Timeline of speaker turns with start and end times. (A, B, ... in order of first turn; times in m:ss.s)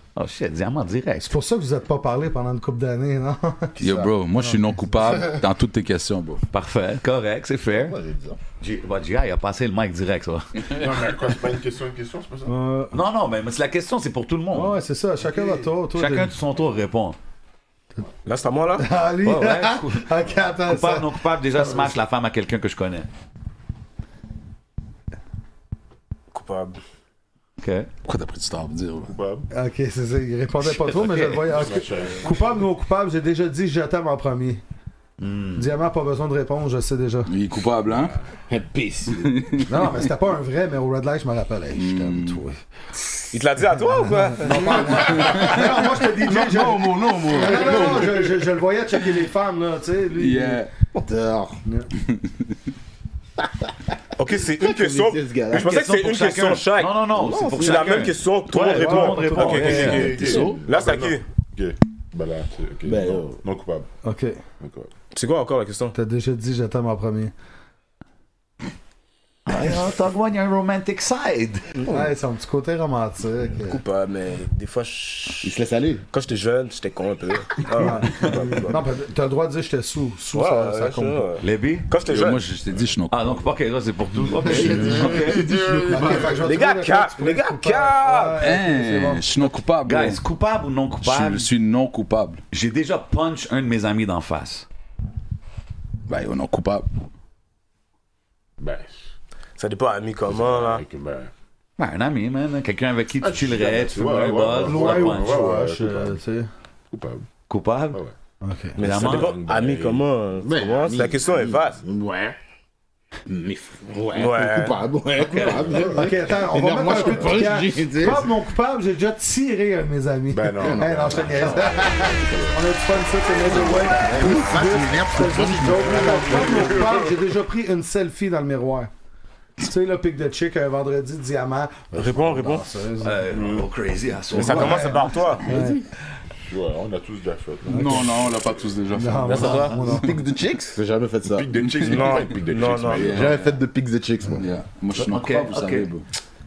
0:00.2-0:01.3 A
0:01.2-0:03.8 B
0:03.8-0:06.4 C
0:03.8-0:04.1 D
0:04.3-0:04.6 B
0:06.5-0:08.0 A
0:07.7-0:08.4 D
0:08.6-0:10.5 A
0:10.7-0:12.6 E
0:12.5-0:13.0 B
0:12.9-0:14.8 A
0:14.5-0:16.3 B
0:15.9-0:17.2 A
0:18.2-0:18.9 F
0:18.8-0:21.9 B
0:19.2-0:20.1 A
0:20.7-0:23.1 A
0:26.3-0:26.8 F
0:27.6-0:27.9 A
0:28.0-0:29.1 C
0:29.1-0:29.5 E
0:29.5-0:34.6 B
0:31.5-0:32.5 E
0:35.2-0:35.7 A
0:35.6-0:37.3 B
0:37.3-0:38.2 C
0:37.9-0:38.2 E
0:38.5-0:39.4 D
0:39.1-0:40.0 C
0:39.7-0:42.6 B
0:41.7-0:42.4 C
0:43.3-0:45.3 F
0:44.0-0:50.6 B
0:44.7-0:48.3 D
0:45.1-0:45.6 C
0:50.2-0:50.7 C
0:50.9-0:51.6 D
0:52.0-0:52.5 C
0:53.4-0:53.7 D
0:54.2-1:01.2 F
0:54.5-0:55.8 D
0:55.5-1:00.2 A
0:57.3-0:57.6 D
0:57.6-0:58.0 B
0:58.7-1:00.2 B
0:59.6-1:03.9 E
1:00.1-1:00.6 C
1:02.8-1:03.4 D
1:04.0-1:04.4 B
1:04.6-1:04.9 E
1:05.1-1:06.0 F
1:05.9-1:07.3 B
1:09.5-1:11.6 A
1:11.8-1:12.1 F
1:11.9-1:13.8 B
1:13.6-1:15.6 F
1:15.4-1:16.0 D
1:16.1-1:18.9 F
1:17.7-1:21.3 B
1:20.3-1:22.4 F
1:21.4-1:21.9 A
1:22.0-1:23.5 C
1:23.1-1:25.4 A
1:24.4-1:26.5 D
1:24.6-1:26.2 E
1:24.8-1:25.2 F
1:25.9-1:29.6 B
1:26.3-1:28.4 F
1:28.4-1:30.2 C
1:29.9-1:31.5 A
1:31.0-1:32.4 C
1:32.5-1:34.7 A
1:36.1-1:36.9 C
1:38.6-1:39.1 E
1:39.6-1:40.8 F
1:40.3-1:41.3 E
1:41.8-1:45.4 A
1:43.2-1:46.2 E
1:44.5-1:46.5 B
1:46.9-1:47.3 E
1:47.5-1:48.0 A
1:48.4-1:48.8 B
1:48.8-1:51.8 F
1:48.8-1:49.3 A
1:48.9-1:50.1 E
1:50.4-1:52.4 D
1:53.3-1:58.3 D
1:54.1-1:54.8 F
1:55.2-1:55.8 A
1:55.9-2:08.9 B
2:00.3-2:02.4 E
2:00.6-2:02.1 D
2:03.5-2:07.0 D
2:05.9-2:07.2 E
2:09.6-2:13.2 B
2:11.9-2:12.7 F
2:13.0-2:15.0 A
2:14.3-2:15.6 F
2:14.4-2:15.8 B
2:16.5-2:18.5 E
2:17.7-2:19.9 C
2:17.7-2:18.0 B
2:18.9-2:20.2 B
2:19.3-2:19.8 F
2:19.3-2:21.5 D
2:21.4-2:23.4 E
2:21.6-2:22.0 C
2:21.8-2:23.2 F
2:22.9-2:23.5 C
2:23.0-2:24.5 D
2:24.4-2:26.0 C
2:25.0-2:25.9 A